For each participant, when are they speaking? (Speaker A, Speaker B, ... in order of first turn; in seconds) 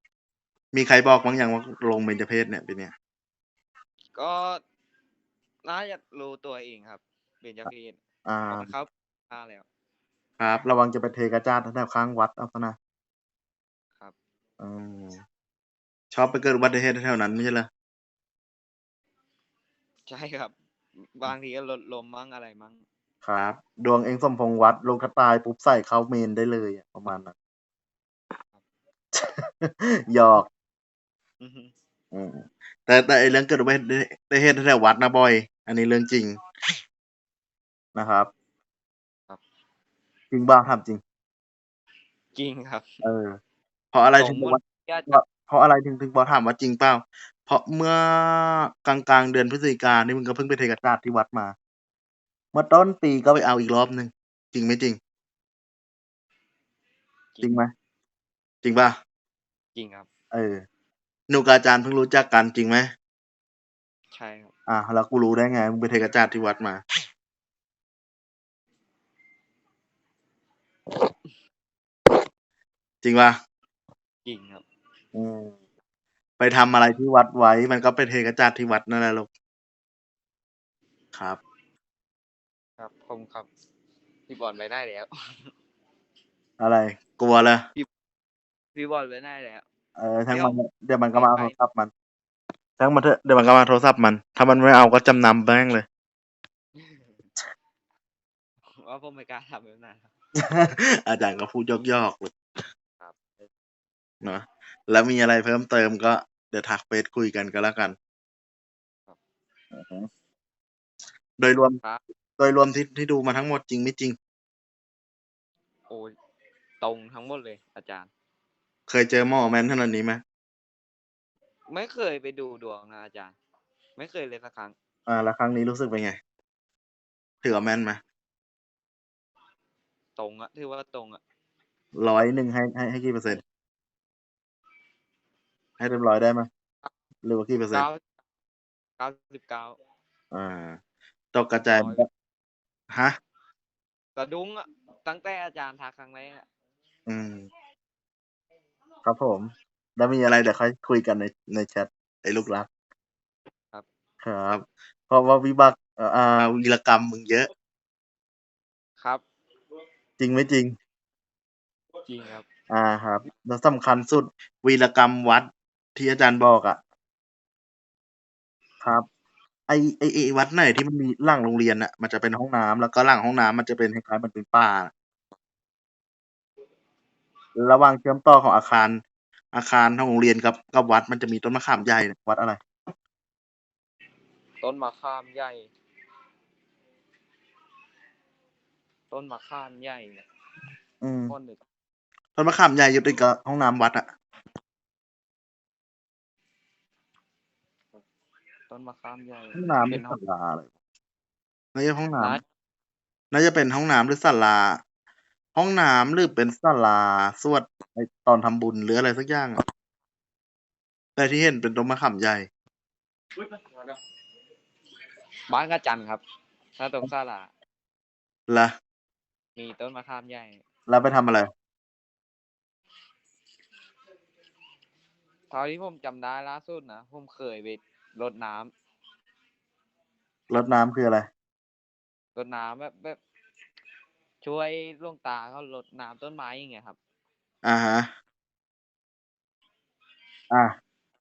Speaker A: 0.7-2.9, 8.2-8.7, 10.4-12.8, 14.6-15.2, 16.1-17.7, 23.2-27.3, 29.1-30.5, 32.1-36.4, 37.9-38.3, 40.3-41.0, 43.0-43.4, 43.9-51.5, 52.5-55.0, 57.4-57.7, 58.6-58.9, 60.3-60.6, 61.3-62.9, 64.7-66.8, 73.0-73.4, 75.1-75.5, 76.4-79.3, 81.1-81.4, 86.6-87.6, 90.0-91.9, 92.8-95.8, 100.3-102.3, 104.2-108.0, 109.7-110.1, 111.4-111.8, 112.4-114.2, 118.9-120.2, 125.1-126.2, 127.4-128.0, 131.9-133.4, 135.8-136.5, 137.2-137.9, 140.3-140.8, 141.3-142.1, 147.1-147.5, 149.0-152.7, 154.2-157.5, 160.2-160.7, 162.7-166.8, 169.7-174.9, 177.6-179.0, 179.5-182.6, 191.0-191.3, 192.3-194.0, 199.5-200.7, 201.7-202.4, 203.3-204.8, 205.5-209.6, 211.2-212.5, 218.5-218.7, 220.9-221.5, 230.5-231.3, 237.6-238.1
Speaker B: 4.1-4.6, 5.6-9.6, 20.1-20.5, 21.1-22.8, 31.4-31.7, 42.3-42.9, 44.2-45.2, 59.7-60.1, 64.1-64.5, 74.2-74.6, 82.8-83.5, 84.3-85.5, 88.7-89.6, 90.3-90.6, 91.1-91.5, 96.8-97.2, 98.7-100.1, 115.9-116.1, 116.8-118.1, 121.7-123.3, 124.0-124.7, 130.2-131.2, 137.7-138.0, 139.0-139.8, 141.7-142.0, 144.2-146.4, 162.0-162.4, 184.6-185.7, 189.1-190.2, 191.3-191.6, 198.7-200.2, 215.5-216.2, 216.8-217.5, 219.6-220.6, 225.5-228.7, 232.3-233.2, 234.4-237.0